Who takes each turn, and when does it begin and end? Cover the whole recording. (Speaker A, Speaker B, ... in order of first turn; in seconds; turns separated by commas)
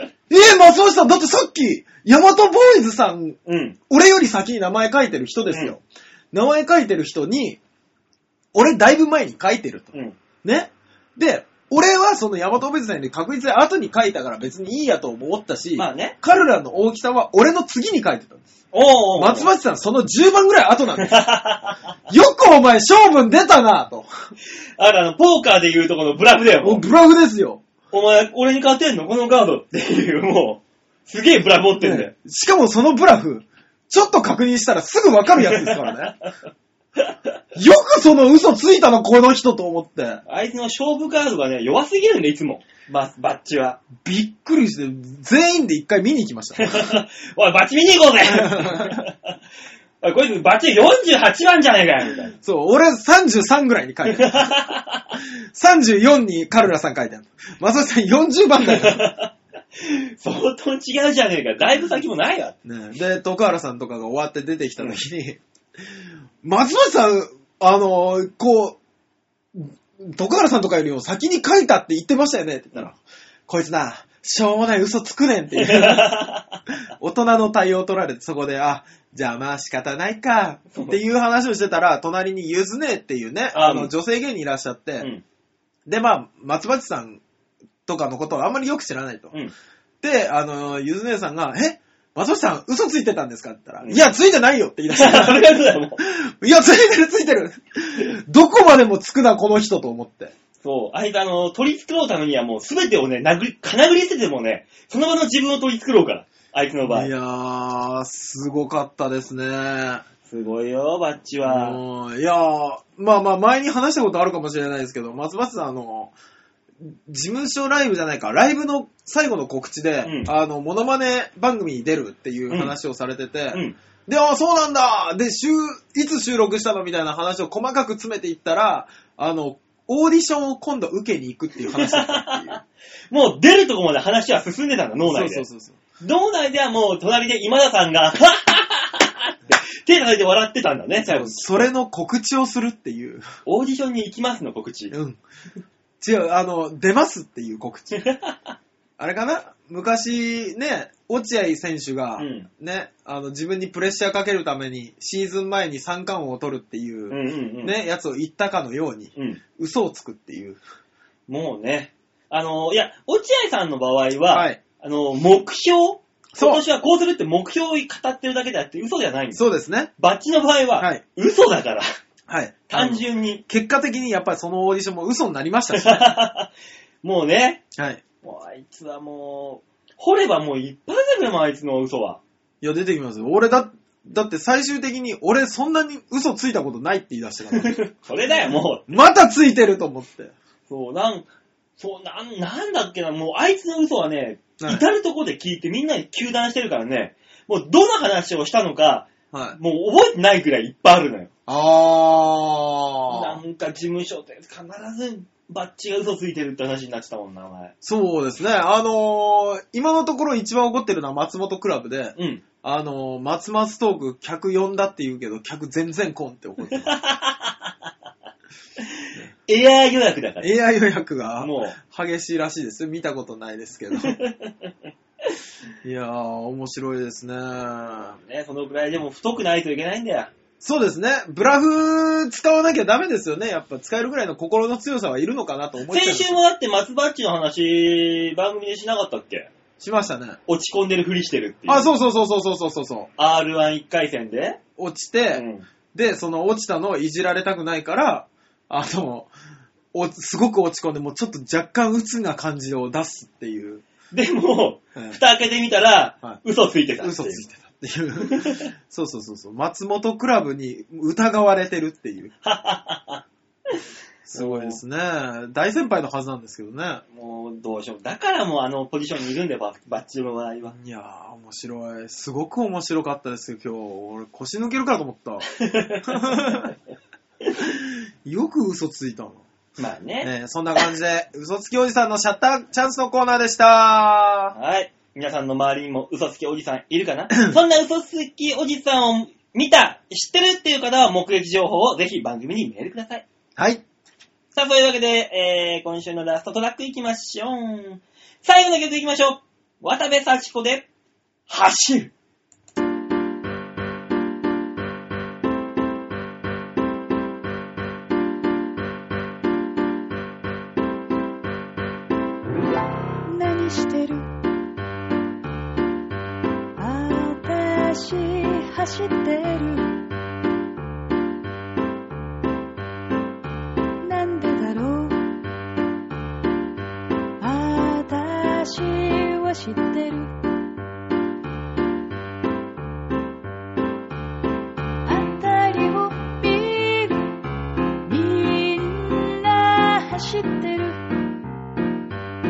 Speaker A: 0.3-3.4, Speaker B: 3.5-3.8, Speaker A: 3.9-7.6, Speaker A: 8.5-9.9, Speaker B: 9.9-10.2, Speaker A: 10.4-18.4, Speaker B: 15.8-16.1, Speaker B: 18.7-19.5, Speaker A: 19.2-21.2, Speaker B: 21.0-21.8, Speaker A: 22.1-24.1, Speaker B: 24.8-26.8, Speaker A: 26.6-27.6, Speaker B: 27.9-32.1, Speaker A: 31.8-36.1, Speaker B: 35.4-36.3, Speaker A: 37.5-40.2, Speaker B: 40.3-43.8, Speaker A: 44.0-47.0, Speaker B: 46.6-49.1, Speaker A: 48.3-49.0, Speaker B: 50.0-52.3, Speaker A: 52.4-54.5, Speaker B: 54.1-55.0, Speaker A: 55.5-59.1, Speaker B: 58.6-62.5, Speaker A: 62.6-65.4, Speaker A: 66.4-68.8, Speaker A: 69.5-76.2, Speaker B: 75.5-76.6, Speaker A: 77.0-85.1, Speaker B: 80.7-81.0, Speaker B: 83.5-83.9, Speaker A: 85.9-87.2, Speaker A: 87.8-89.3, Speaker A: 90.0-95.4, Speaker B: 94.9-96.0, Speaker A: 96.0-100.3, Speaker B: 100.6-107.1, Speaker A: 106.9-110.0, Speaker B: 110.2-111.8, Speaker A: 111.4-116.1, Speaker A: 116.8-132.6, Speaker B: 120.0-120.3, Speaker B: 131.7-132.6, Speaker B: 133.1-135.4, Speaker A: 135.0-135.8, Speaker B: 136.0-141.6, Speaker A: 141.0-143.2, Speaker B: 143.4-144.9, Speaker A: 144.9-145.2, Speaker A: 146.0-148.0, Speaker B: 148.0-148.3, Speaker A: 149.0-160.6, Speaker B: 152.2-152.5, Speaker B: 157.1-157.7, Speaker B: 161.3-169.4, Speaker A: 164.3-164.6, Speaker A: 166.3-166.6, Speaker A: 169.3-169.9, Speaker B: 170.0-171.9, Speaker A: 172.3-176.2, Speaker B: 172.7-173.4, Speaker B: 175.7-176.5, Speaker B: 177.0-177.6, Speaker A: 177.8-178.0, Speaker B: 178.2-182.2, Speaker A: 182.6-187.8, Speaker B: 187.5-188.9, Speaker A: 188.9-190.3, Speaker B: 190.7-191.2, Speaker B: 191.8-201.3, Speaker A: 199.3-199.6, Speaker A: 201.5-203.4, Speaker B: 203.1-207.7, Speaker A: 207.8-216.9, Speaker B: 212.2-212.4, Speaker B: 216.7-217.7, Speaker B: 218.8-220.5, Speaker A: 220.4-224.2, Speaker B: 221.4-221.8, Speaker B: 223.9-224.7, Speaker A: 225.8-228.2, Speaker B: 228.2-230.3, Speaker A: 230.6-236.4, Speaker B: 235.9-239.5, Speaker A: 239.8-240.4, Speaker B: 240.5-241.9, Speaker A: 241.7-243.1, Speaker B: 243.2-244.6, Speaker A: 244.8-249.3, Speaker B: 245.3-245.7, Speaker A: 249.9-253.8, Speaker B: 254.1-257.4, Speaker A: 257.0-262.3, Speaker B: 258.2-258.7, Speaker B: 262.4-263.8, Speaker A: 264.2-267.0, Speaker B: 264.3-264.8, Speaker B: 267.1-270.8, Speaker A: 270.7-275.4, Speaker B: 275.5-276.7, Speaker A: 276.0-276.7, Speaker A: 277.6-279.4, Speaker B: 279.8-280.3, Speaker A: 280.2-284.5, Speaker B: 284.5-293.2, Speaker A: 293.6-293.8, Speaker B: 294.5-300.9, Speaker B: 301.5-302.1, Speaker C: 313.3-314.3, Speaker C: 316.8-320.0, Speaker C: 324.0-325.3, Speaker C: 327.4-330.3, Speaker C: 335.0-337.3, Speaker C: 338.1-341.0